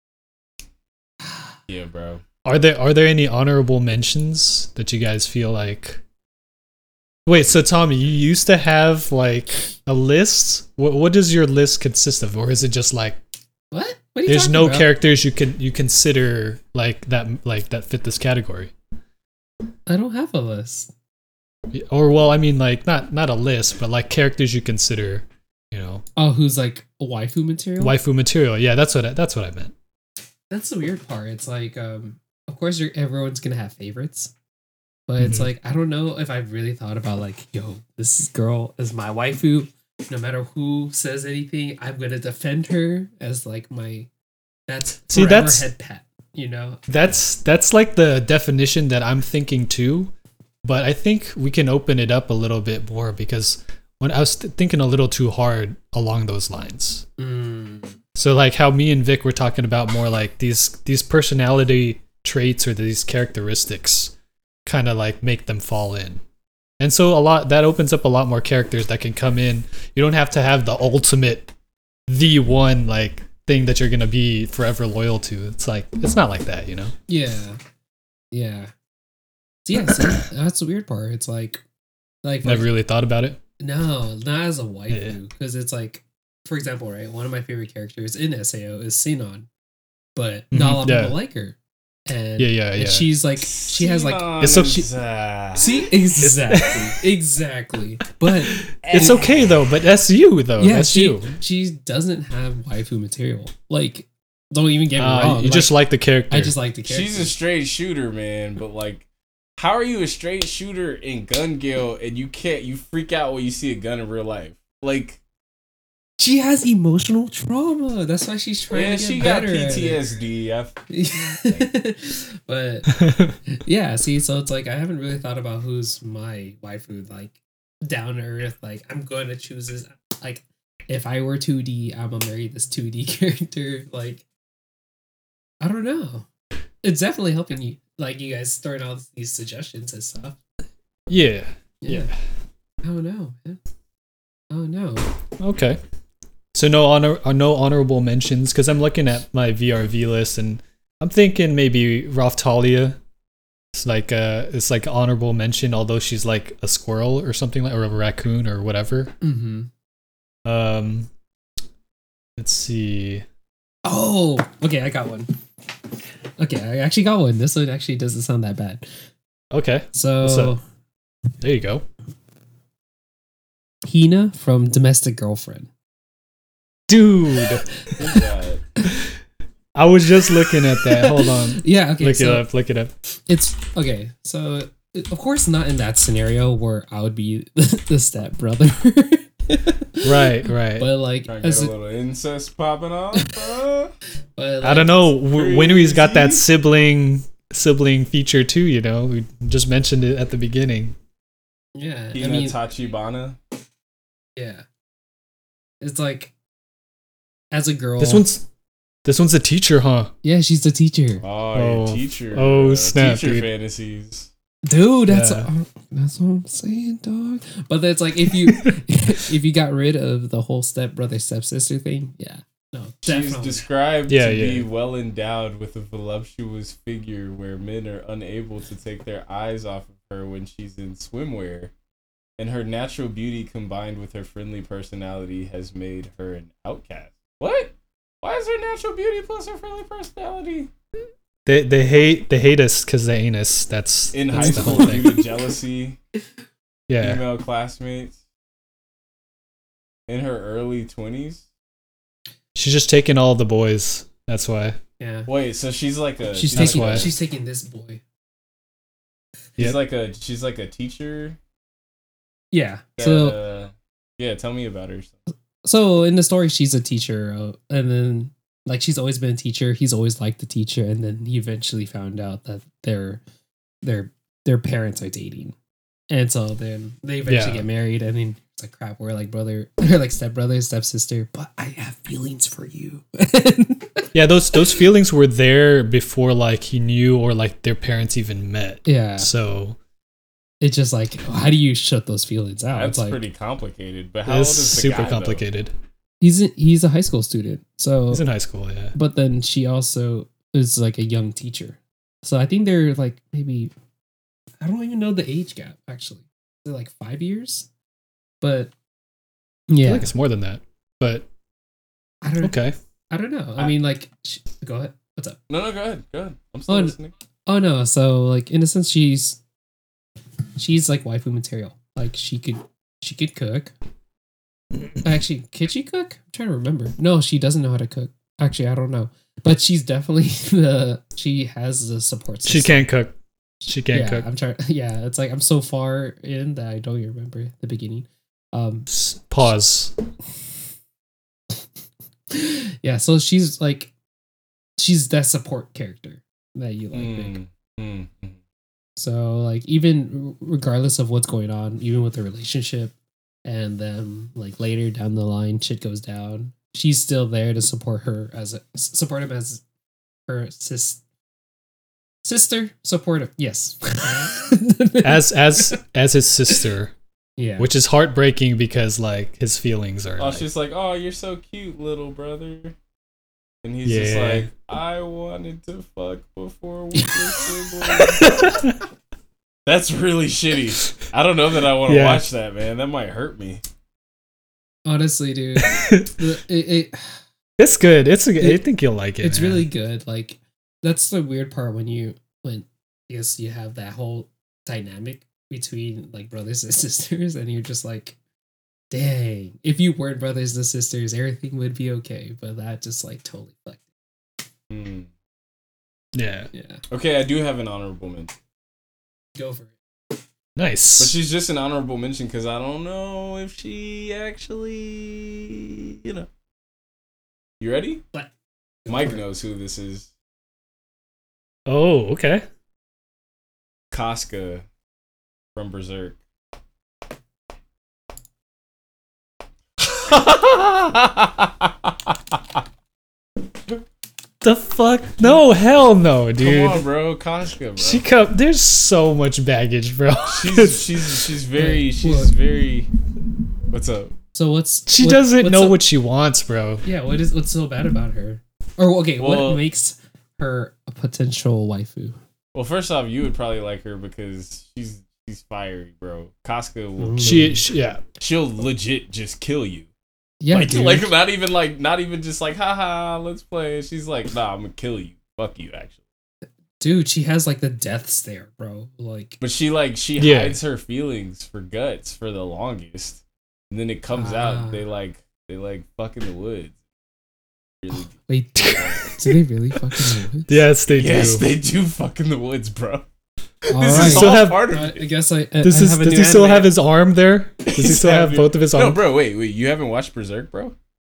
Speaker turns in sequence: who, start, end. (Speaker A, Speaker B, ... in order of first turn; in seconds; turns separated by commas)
Speaker A: 1.7-2.2, Speaker B: 2.4-6.0, Speaker B: 7.2-13.2, Speaker C: 13.7-14.9, Speaker B: 14.2-18.7, Speaker C: 19.9-20.9, Speaker B: 21.7-26.0, Speaker C: 26.1-27.9, Speaker B: 27.8-29.7, Speaker C: 30.5-34.3, Speaker C: 35.1-44.1, Speaker B: 35.2-35.5, Speaker C: 44.7-46.9, Speaker B: 45.1-45.7, Speaker B: 46.9-50.1, Speaker B: 50.6-57.0, Speaker C: 57.2-58.0, Speaker B: 58.1-64.1, Speaker B: 64.7-66.2, Speaker B: 66.8-71.5, Speaker B: 72.1-76.9, Speaker C: 77.1-77.6, Speaker C: 78.3-78.7, Speaker C: 79.6-81.6, Speaker C: 82.2-82.7, Speaker B: 82.4-83.4, Speaker C: 83.6-89.5, Speaker B: 84.9-85.2, Speaker C: 90.1-94.9, Speaker B: 90.5-91.1, Speaker B: 92.4-93.1, Speaker A: 93.4-95.8, Speaker B: 94.4-94.8, Speaker C: 95.5-99.2, Speaker B: 96.2-96.9, Speaker B: 98.7-101.3, Speaker A: 98.8-99.3, Speaker C: 100.6-105.8, Speaker B: 105.0-106.5, Speaker C: 106.3-107.3, Speaker A: 106.8-115.2, Speaker C: 116.2-120.0, Speaker A: 118.7-120.8, Speaker C: 120.9-134.2, Speaker A: 121.3-121.7, Speaker B: 122.9-123.4, Speaker C: 135.6-136.3, Speaker C: 136.8-140.4, Speaker B: 141.1-142.1, Speaker C: 141.8-142.1, Speaker C: 142.8-143.6, Speaker C: 144.5-145.1, Speaker B: 145.4-145.8, Speaker B: 146.5-153.0, Speaker B: 153.7-159.1, Speaker C: 159.2-159.7, Speaker B: 160.4-161.1, Speaker B: 162.4-163.2, Speaker C: 163.8-165.3, Speaker C: 166.4-168.9, Speaker B: 169.5-170.5, Speaker C: 169.9-170.6, Speaker B: 171.4-171.8, Speaker C: 173.8-175.7, Speaker B: 176.9-177.7, Speaker C: 177.6-178.1, Speaker A: 178.0-178.6, Speaker B: 178.9-179.1, Speaker B: 179.7-182.9, Speaker C: 180.7-182.5, Speaker C: 183.2-191.7, Speaker B: 190.0-190.9, Speaker A: 191.3-193.9, Speaker C: 194.3-195.1, Speaker B: 194.6-200.9, Speaker A: 195.3-196.4, Speaker C: 201.7-202.6, Speaker A: 202.1-203.4, Speaker C: 204.3-204.6, Speaker C: 205.8-206.3, Speaker C: 207.5-208.2, Speaker B: 208.0-208.4, Speaker B: 209.0-210.1, Speaker C: 210.2-211.2, Speaker A: 211.2-214.3, Speaker B: 211.5-213.5, Speaker C: 214.6-223.7, Speaker B: 215.1-215.5, Speaker A: 223.0-231.7, Speaker B: 224.1-224.7, Speaker A: 232.4-240.7, Speaker B: 241.4-245.2, Speaker A: 244.1-246.0, Speaker C: 244.3-245.0, Speaker B: 246.9-247.2, Speaker A: 247.0-248.2, Speaker A: 250.1-251.4, Speaker B: 252.5-254.8, Speaker C: 255.0-255.3, Speaker A: 255.3-257.1, Speaker C: 256.3-258.0, Speaker B: 256.5-257.1, Speaker A: 259.6-261.4, Speaker C: 262.5-263.4, Speaker A: 263.0-265.2, Speaker C: 265.6-273.2, Speaker C: 273.8-275.5, Speaker C: 276.1-284.8, Speaker B: 277.3-277.6, Speaker B: 284.1-289.8, Speaker C: 288.9-289.3, Speaker C: 290.6-293.2, Speaker A: 292.7-295.4, Speaker B: 294.2-295.7, Speaker C: 296.2-298.2, Speaker B: 298.1-298.9, Speaker C: 298.9-303.7, Speaker C: 304.6-307.7, Speaker C: 308.4-308.7, Speaker C: 309.7-310.1, Speaker B: 309.8-311.3, Speaker C: 312.2-312.6, Speaker B: 312.4-312.7, Speaker C: 313.1-315.4, Speaker A: 315.5-317.1, Speaker C: 316.7-316.9, Speaker C: 317.5-319.4, Speaker C: 320.6-323.7, Speaker B: 324.7-325.0, Speaker C: 325.0-332.8, Speaker B: 332.4-334.2, Speaker C: 333.9-338.9, Speaker B: 338.9-339.9, Speaker C: 342.3-343.9, Speaker C: 344.8-347.4, Speaker A: 346.9-348.4, Speaker C: 349.0-359.6, Speaker C: 360.3-361.0, Speaker C: 362.2-365.8, Speaker B: 365.0-366.9, Speaker C: 367.4-367.7, Speaker B: 367.6-370.4, Speaker A: 370.2-372.7, Speaker A: 373.6-378.2, Speaker B: 373.8-374.5, Speaker C: 377.9-378.5, Speaker B: 378.4-378.8, Speaker A: 379.6-383.6, Speaker B: 381.9-382.2, Speaker C: 384.8-387.2, Speaker B: 385.6-386.1, Speaker B: 387.6-389.6, Speaker C: 389.2-398.2, Speaker C: 398.9-403.8, Speaker A: 404.7-405.1, Speaker B: 406.1-406.5, Speaker C: 406.5-406.8, Speaker A: 406.9-408.3, Speaker C: 409.4-409.7, Speaker B: 410.6-411.1, Speaker A: 411.0-416.3, Speaker A: 417.6-418.0, Speaker C: 418.8-419.2, Speaker A: 418.9-420.1, Speaker B: 421.7-422.4, Speaker A: 423.9-424.6, Speaker A: 425.5-426.2, Speaker A: 429.9-432.4, Speaker B: 434.4-436.8, Speaker A: 436.4-438.0, Speaker B: 437.8-441.3, Speaker A: 440.3-442.9, Speaker C: 441.5-442.3, Speaker A: 443.7-444.1, Speaker C: 444.3-445.8, Speaker B: 444.9-446.8, Speaker C: 446.8-452.2, Speaker A: 449.2-449.6, Speaker A: 452.5-457.6, Speaker C: 457.0-457.6, Speaker B: 457.2-458.0, Speaker A: 458.2-459.9, Speaker C: 460.4-461.1, Speaker A: 460.5-466.0, Speaker C: 466.8-469.4, Speaker A: 469.4-476.8, Speaker B: 470.2-470.6, Speaker C: 474.2-474.8, Speaker A: 477.8-479.1, Speaker C: 478.3-480.6, Speaker B: 478.6-479.4, Speaker B: 479.9-481.4, Speaker A: 480.9-483.0, Speaker C: 483.7-486.8, Speaker A: 483.7-485.1, Speaker B: 483.8-484.7, Speaker B: 485.6-489.0, Speaker A: 487.6-490.7